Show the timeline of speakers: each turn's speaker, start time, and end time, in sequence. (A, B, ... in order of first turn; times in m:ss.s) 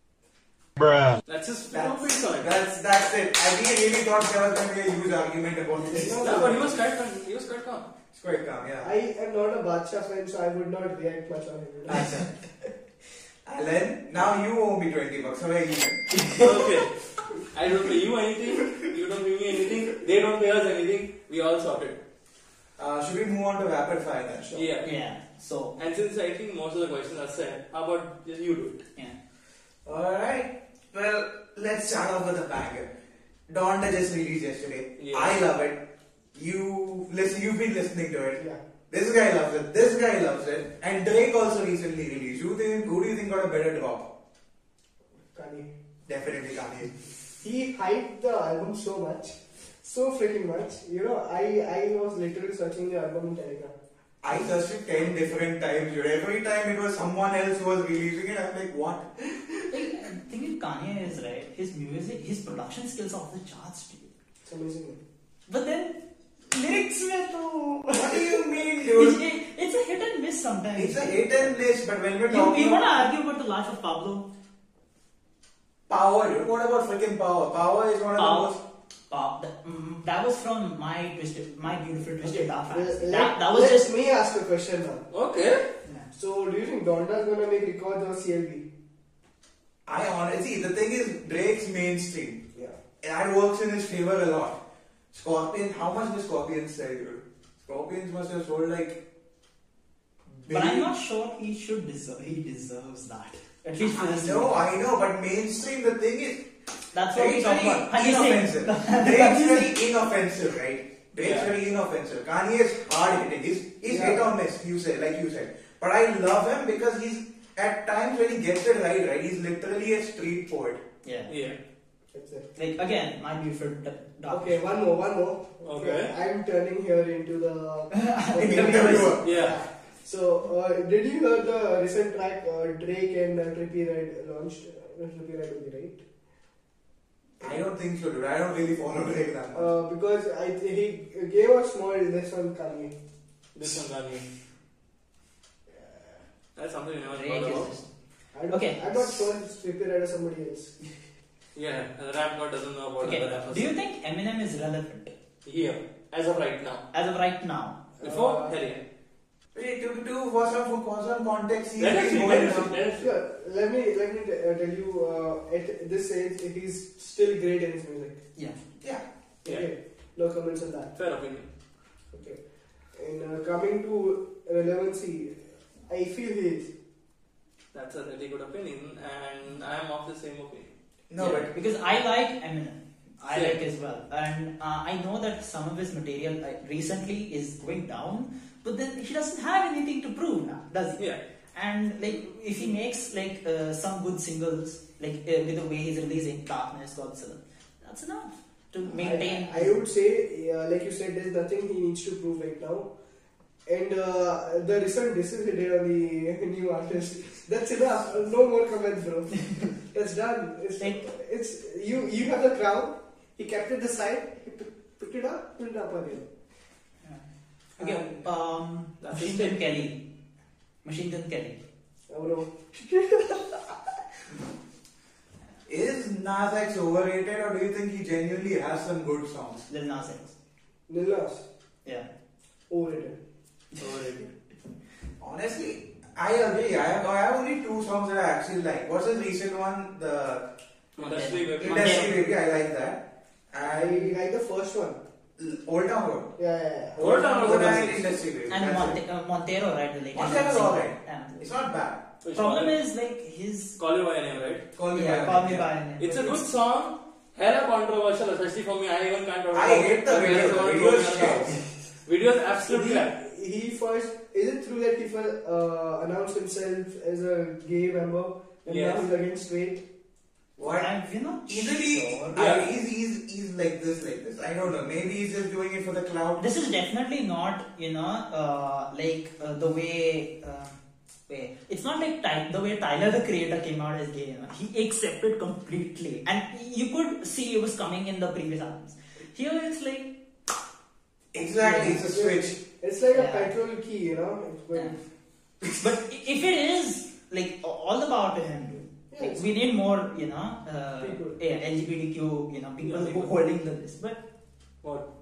0:01.2-0:02.6 A
0:01.7-0:06.6 B
0:05.9-0:06.7 C
0:06.0-0:07.9 A
0:08.1-0:08.9 B
0:08.8-0:12.1 C
0:11.8-0:12.3 B
0:13.4-0:16.5 B
0:16.3-0:16.9 A
0:17.5-0:22.0 A
0:22.8-0:24.6 B
0:24.5-0:24.9 A
0:24.8-0:25.8 D
0:25.8-0:28.8 A
0:29.8-0:32.9 B
0:33.5-0:35.8 B
0:35.0-0:35.4 A
0:36.3-0:44.1 B
0:45.3-0:45.7 C
0:46.1-0:46.9 B
0:47.4-0:53.7 C
0:54.2-0:59.3 B
0:59.7-1:04.1 D
1:04.4-1:05.0 C
1:05.5-1:11.2 D
1:07.9-1:09.2 B
1:10.8-1:12.9 B
1:12.3-1:14.2 D
1:15.9-1:18.6 B
1:18.2-1:18.6 D
1:19.1-1:23.9 D
1:22.2-1:25.0 C
1:25.1-1:25.6 A
1:26.1-1:28.6 C
1:29.8-1:32.4 B
1:33.0-1:34.6 B
1:35.1-1:39.0 B
1:40.4-1:40.9 B
1:40.5-1:44.7 D
1:43.8-1:46.4 B
1:46.9-1:49.7 D
1:47.1-2:00.8 B
1:51.2-1:51.5 A
1:53.9-1:54.2 C
2:01.0-2:01.3 D
2:01.3-2:01.6 A
2:02.1-2:02.5 C
2:02.6-2:04.6 D
2:04.3-2:16.0 C
2:05.6-2:06.1 A
2:07.9-2:09.2 D
2:08.4-2:09.3 B
2:09.2-2:09.6 A
2:17.4-2:19.7 B
2:19.5-2:22.9 C
2:23.5-2:24.2 A
2:26.6-2:27.7 A
2:27.1-2:27.9 D
2:28.3-2:30.7 C
2:28.5-2:29.2 D
2:31.5-2:33.7 A
2:33.0-2:35.1 D
2:35.4-2:36.8 A
2:36.9-2:37.8 D
2:38.0-2:38.6 C
2:38.0-2:38.8 A
2:39.5-2:42.8 B
2:41.8-2:43.1 A
2:43.0-2:48.2 C
2:49.4-2:50.9 C
2:51.0-2:51.5 A
2:52.1-2:52.4 C
2:53.0-2:56.7 C
2:57.7-3:00.7 A
3:01.1-3:01.5 B
3:01.2-3:19.7 D
3:03.3-3:03.6 A
3:18.8-3:22.9 C
3:23.6-3:36.3 C
3:37.8-3:40.0 D
3:39.0-3:39.6 A
3:40.8-3:41.6 D
3:42.1-3:43.6 C
3:45.7-3:49.7 B
3:49.7-3:50.3 D
3:50.9-3:51.4 C
3:52.7-3:53.2 C
3:53.8-3:54.2 A
3:55.2-4:00.4 B
4:01.0-4:02.2 A
4:01.0-4:02.2 D
4:01.6-4:04.1 B
4:03.6-4:05.0 C
4:05.4-4:06.3 B
4:06.4-4:07.9 C
4:07.0-4:09.0 B
4:07.0-4:08.1 A
4:08.5-4:11.5 D
4:10.1-4:12.0 B
4:12.2-4:12.7 A
4:12.3-4:13.8 D
4:13.8-4:14.6 A
4:14.7-4:15.7 B
4:14.9-4:16.4 D
4:16.0-4:21.5 A
4:19.5-4:21.6 B
4:22.0-4:23.1 A
4:22.7-4:29.8 C
4:28.7-4:29.0 A
4:30.6-4:30.9 B
4:30.6-4:32.4 D
4:31.5-4:36.4 B
4:32.3-4:32.7 A
4:36.4-4:40.7 D
4:41.3-4:50.1 D
4:51.3-4:52.6 B
4:51.6-4:52.0 D
4:51.8-4:55.0 C
4:53.1-4:53.5 D
4:55.8-5:04.2 D
4:59.1-4:59.5 C
5:01.0-5:01.4 C
5:02.8-5:03.3 A